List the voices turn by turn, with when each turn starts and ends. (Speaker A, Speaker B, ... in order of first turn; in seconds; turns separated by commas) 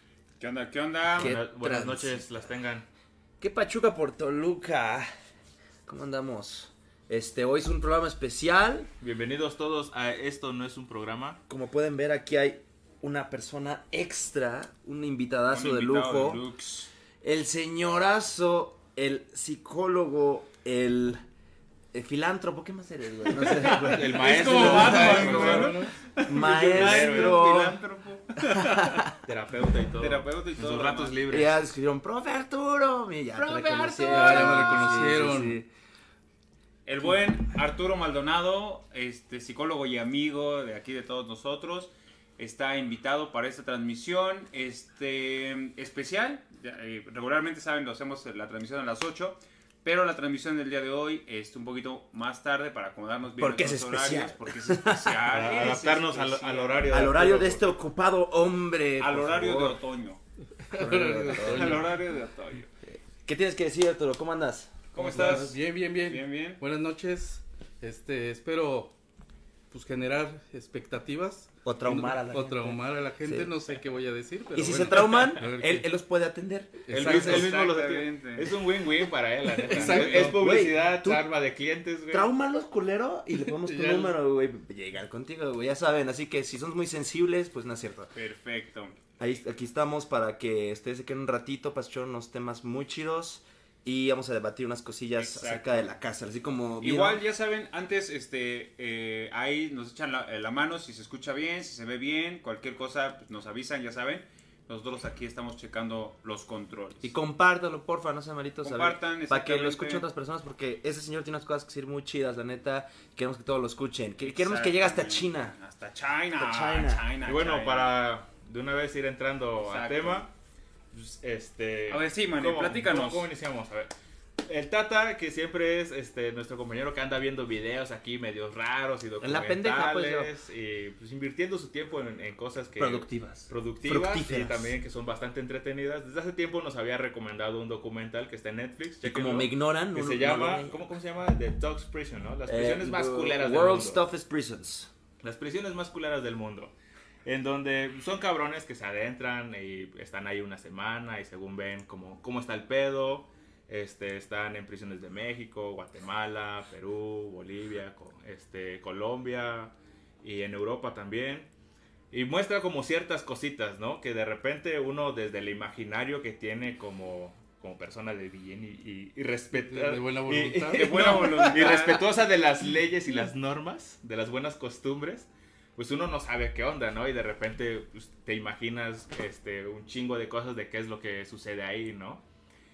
Speaker A: 0.4-1.4, Speaker B: 1.1-2.9, Speaker C: 1.2-2.4, Speaker C: 3.4-5.1, Speaker C: 5.8-8.9, Speaker B: 9.0-11.4, Speaker C: 11.5-16.4, Speaker A: 15.5-16.9, Speaker C: 17.2-21.2, Speaker C: 21.9-25.7, Speaker B: 23.6-27.7, Speaker A: 23.6-29.1, Speaker D: 24.9-25.9, Speaker C: 26.2-27.8, Speaker C: 28.4-29.1, Speaker B: 29.2-31.6, Speaker A: 29.9-31.2, Speaker C: 31.3-35.7, Speaker A: 33.3-35.1, Speaker D: 34.0-35.6, Speaker A: 36.9-57.1, Speaker C: 53.4-55.6, Speaker B: 55.3-57.7, Speaker C: 56.9-59.8, Speaker A: 59.0-60.2, Speaker D: 60.6-61.9, Speaker C: 60.7-61.9, Speaker A: 61.4-62.7, Speaker C: 62.8-65.5, Speaker A: 64.9-66.6, Speaker D: 65.0-68.9, Speaker D: 69.7-75.9, Speaker C: 71.6-73.5, Speaker C: 74.5-77.2, Speaker D: 76.8-77.4, Speaker B: 76.9-82.3, Speaker A: 77.0-78.6, Speaker D: 79.6-80.4, Speaker C: 79.7-81.2, Speaker C: 82.1-88.1, Speaker D: 83.4-84.1, Speaker A: 88.1-89.0, Speaker C: 89.2-97.2, Speaker A: 95.2-95.9, Speaker A: 96.8-107.1, Speaker C: 107.0-115.5, Speaker A: 108.6-110.0, Speaker A: 114.2-118.0, Speaker C: 116.3-117.1, Speaker B: 117.2-120.3, Speaker A: 119.6-120.2, Speaker B: 120.9-144.0, Speaker A: 121.9-123.3, Speaker C: 129.2-130.3, Speaker C: 132.8-134.7, Speaker C: 139.0-140.8, Speaker C: 142.4-144.9, Speaker B: 145.2-146.7, Speaker B: 147.2-161.5, Speaker B: 162.1-182.2, Speaker D: 169.5-171.7, Speaker A: 170.7-172.2